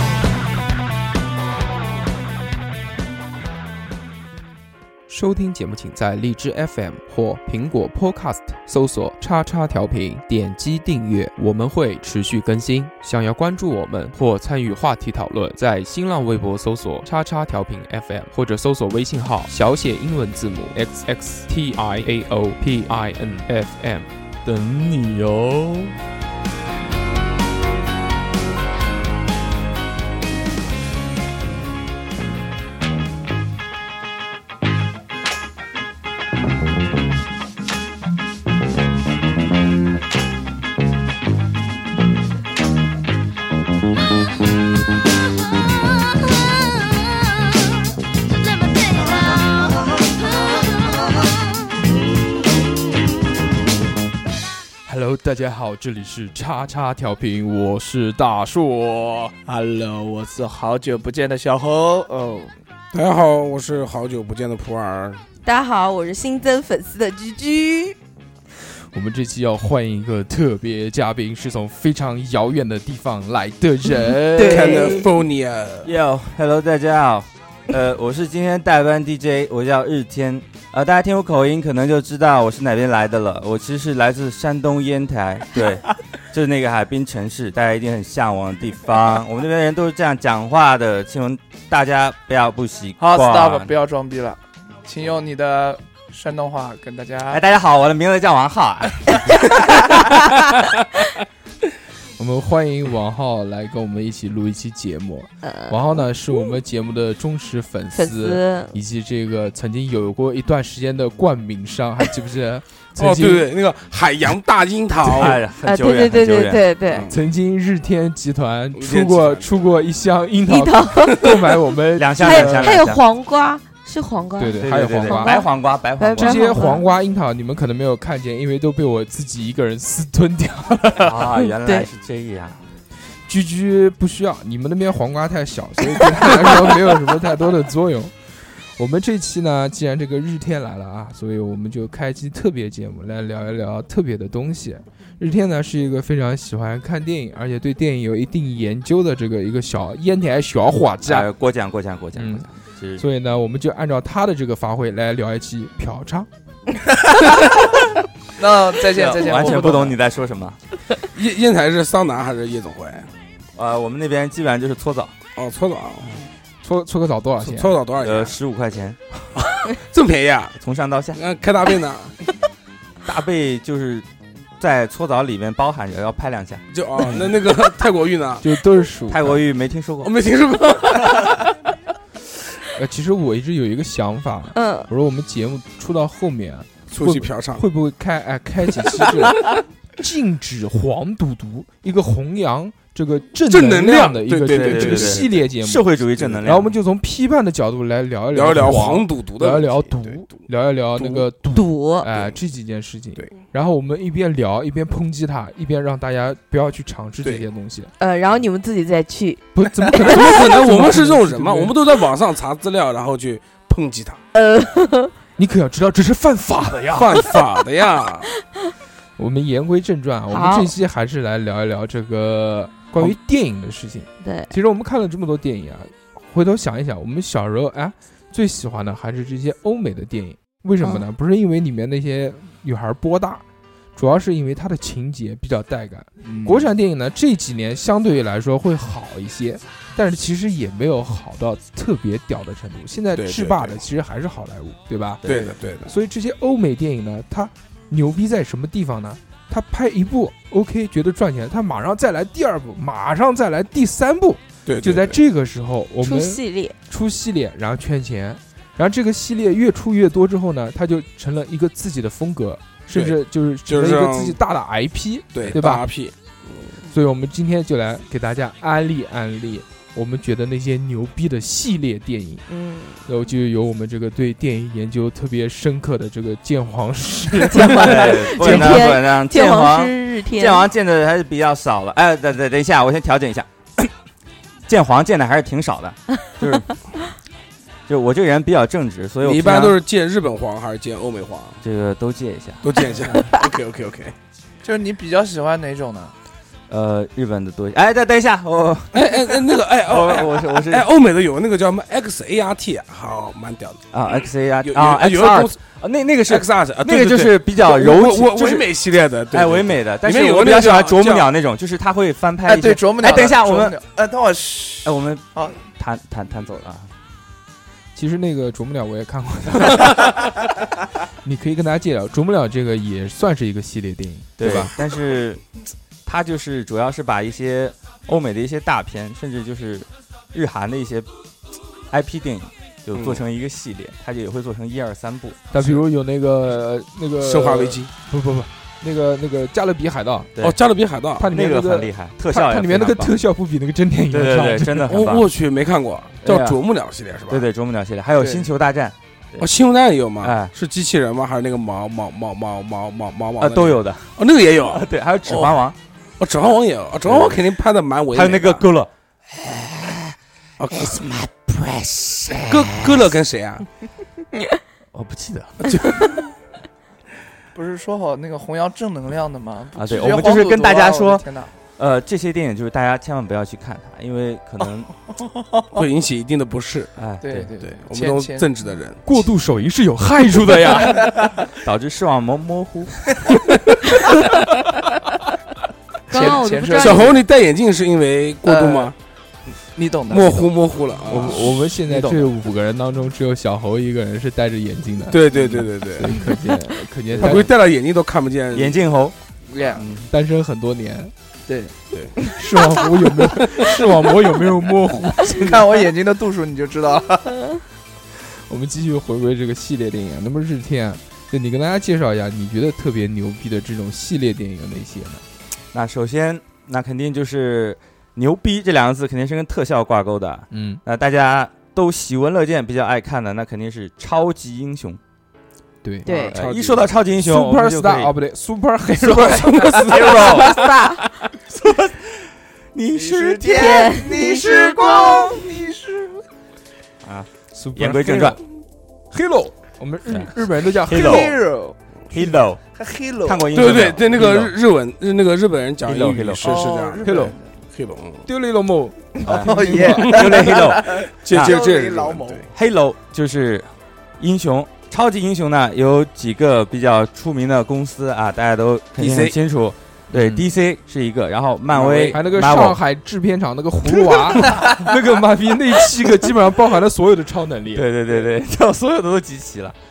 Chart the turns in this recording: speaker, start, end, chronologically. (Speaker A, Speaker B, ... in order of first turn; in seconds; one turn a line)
Speaker A: 5.1-24.1
Speaker B: 24.4-25.9
Speaker A: 54.9-59.4
Speaker C: 59.5-62.5
Speaker D: 62.9-65.2
Speaker E: 65.4-68.0
Speaker A: 68.9-74.9
Speaker E: 74.2-75.1
Speaker D: 74.4-75.9
Speaker B: 75.8-93.7
Speaker C: 93.0-97.4
Speaker B: 97.3-100.2
Speaker A: 102.2-113.5
Speaker E: 105.4-105.8
Speaker E: 108.0-108.8
Speaker D: 113.0-115.4
Speaker B: 115.1-116.6
Speaker E: 115.6-117.1
Speaker D: 116.9-117.2
Speaker A: 117.1-122.8
Speaker D: 118.7-119.7
Speaker E: 120.5-121.6
Speaker B: 122.0-123.0
Speaker E: 122.2-126.8
Speaker A: 124.4-125.4
Speaker B: 124.6-126.5
Speaker A: 126.2-131.2
Speaker B: 131.0-132.6
Speaker E: 131.5-131.9
Speaker A: 133.3-138.1
Speaker A: 138.8-151.3
Speaker B: 151.1-153.0
Speaker A: 152.2-156.3
Speaker C: 158.4-160.0
Speaker B: 158.9-160.6
Speaker D: 161.1-163.1
Speaker B: 163.6-165.1
Speaker D: 165.4-166.2
Speaker A: 166.6-167.7
Speaker D: 167.4-168.4
Speaker B: 168.0-169.0
Speaker D: 169.4-170.6
Speaker B: 170.6-171.2
Speaker D: 171.1-172.1
Speaker B: 173.1-174.1
Speaker B: 174.6-176.6
Speaker D: 176.7-178.5
Speaker A: 177.0-177.3
Speaker A: 178.4-179.4
Speaker B: 179.1-180.2
Speaker D: 180.0-181.5
Speaker A: 182.8-207.9
Speaker E: 184.5-184.9
Speaker D: 186.9-187.7
Speaker D: 193.5-195.4
Speaker B: 194.5-196.7
Speaker D: 196.2-196.5
Speaker D: 198.3-200.4
Speaker D: 201.0-201.3
Speaker E: 201.5-202.1
Speaker E: 208.0-210.1
Speaker A: 209.6-211.8
Speaker D: 210.0-214.2
Speaker E: 214.3-215.1
Speaker A: 215.4-217.3
Speaker D: 216.8-218.3
Speaker A: 219.2-233.4
Speaker E: 220.3-220.8
Speaker E: 224.2-224.5
Speaker A: 234.0-245.2
Speaker C: 236.2-236.7
Speaker D: 243.2-243.8
Speaker D: 245.2-245.9
Speaker A: 245.9-265.9
Speaker D: 254.7-255.2
Speaker E: 256.0-256.8
Speaker D: 262.9-264.4
Speaker D: 265.3-266.7
Speaker A: 266.9-272.4
Speaker E: 272.5-273.0
Speaker A: 273.1-278.9
Speaker E: 277.5-280.7
Speaker B: 277.6-283.9
Speaker B: 284.7-286.7
Speaker B: 287.9-289.8
Speaker D: 289.2-291.6
Speaker B: 291.6-292.7
Speaker D: 292.6-294.1
Speaker C: 294.6-296.1
Speaker B: 296.7-299.3
Speaker D: 298.9-303.8
Speaker B: 299.9-300.9
Speaker B: 303.9-308.7
Speaker D: 304.6-305.6
Speaker D: 306.3-311.3
Speaker B: 309.3-313.8
Speaker C: 312.4-315.6
Speaker B: 314.8-316.9
Speaker A: 317.9-320.3
Speaker A: 321.2-324.7
Speaker B: 324.4-325.4
Speaker B: 326.1-331.1
Speaker B: 331.9-335.5
Speaker D: 332.9-333.2
Speaker A: 335.5-340.3
Speaker D: 337.2-337.9
Speaker D: 340.4-341.3
Speaker A: 341.2-345.0
Speaker B: 341.3-343.2
Speaker B: 344.1-345.3
Speaker D: 344.9-347.4
Speaker B: 346.2-346.6
Speaker B: 347.3-349.5
Speaker C: 348.2-348.5
Speaker D: 349.4-355.6
Speaker B: 350.2-350.5
Speaker B: 353.4-354.1
Speaker B: 354.6-355.8
Speaker D: 356.2-358.6
Speaker B: 357.1-357.4
Speaker B: 358.1-360.1
Speaker D: 360.6-361.1
Speaker B: 360.7-363.1
Speaker D: 362.4-363.7
Speaker B: 364.9-365.8
Speaker D: 365.7-366.1
Speaker C: 367.6-371.5
Speaker B: 369.8-371.2
Speaker B: 371.8-374.9
Speaker C: 374.6-375.8
Speaker D: 375.7-376.9
Speaker B: 377.0-377.5
Speaker C: 377.2-378.5
Speaker D: 377.6-379.0
Speaker A: 379.1-381.1
Speaker C: 381.0-381.3
Speaker B: 381.6-383.1
Speaker E: 386.1-387.2
Speaker C: 386.1-387.2
Speaker D: 386.8-388.9
Speaker C: 388.4-388.9
Speaker C: 389.8-390.5
Speaker D: 390.1-391.6
Speaker A: 391.1-397.5
Speaker C: 391.1-392.3
Speaker D: 395.1-396.2
Speaker B: 397.1-397.5
Speaker D: 397.1-398.9
Speaker B: 398.5-400.1
Speaker C: 399.5-399.9
Speaker A: 400.1-401.1
Speaker C: 401.5-401.7
Speaker A: 402.3-405.8
Speaker D: 403.2-403.7
Speaker C: 405.3-407.5
Speaker A: 408.5-415.2
Speaker B: 415.7-425.0
Speaker A: 420.5-420.8
Speaker A: 425.8-426.1
Speaker E: 426.1-426.4
Speaker D: 426.1-426.9
Speaker B: 426.3-428.1
Speaker A: 427.2-430.3
Speaker B: 429.0-430.6
Speaker D: 429.1-430.5
Speaker E: 430.3-431.0
Speaker B: 431.4-434.0
Speaker C: 432.9-436.2
Speaker E: 433.5-435.3
Speaker B: 437.0-438.4
Speaker A: 437.5-438.4
Speaker A: 439.1-441.3
Speaker C: 440.9-443.7
Speaker B: 440.9-441.4
Speaker B: 442.1-442.6
Speaker B: 443.2-444.5
Speaker D: 443.5-448.2
Speaker B: 445.8-446.7
Speaker C: 446.4-447.5
Speaker A: 447.0-447.4
Speaker A: 448.3-450.0
Speaker C: 449.2-452.4
Speaker B: 449.2-451.6
Speaker D: 449.9-450.6
Speaker D: 451.1-452.5
Speaker B: 452.5-462.8
Speaker D: 458.9-459.4
Speaker D: 461.7-462.2
Speaker A: 462.1-467.9
Speaker B: 467.7-469.8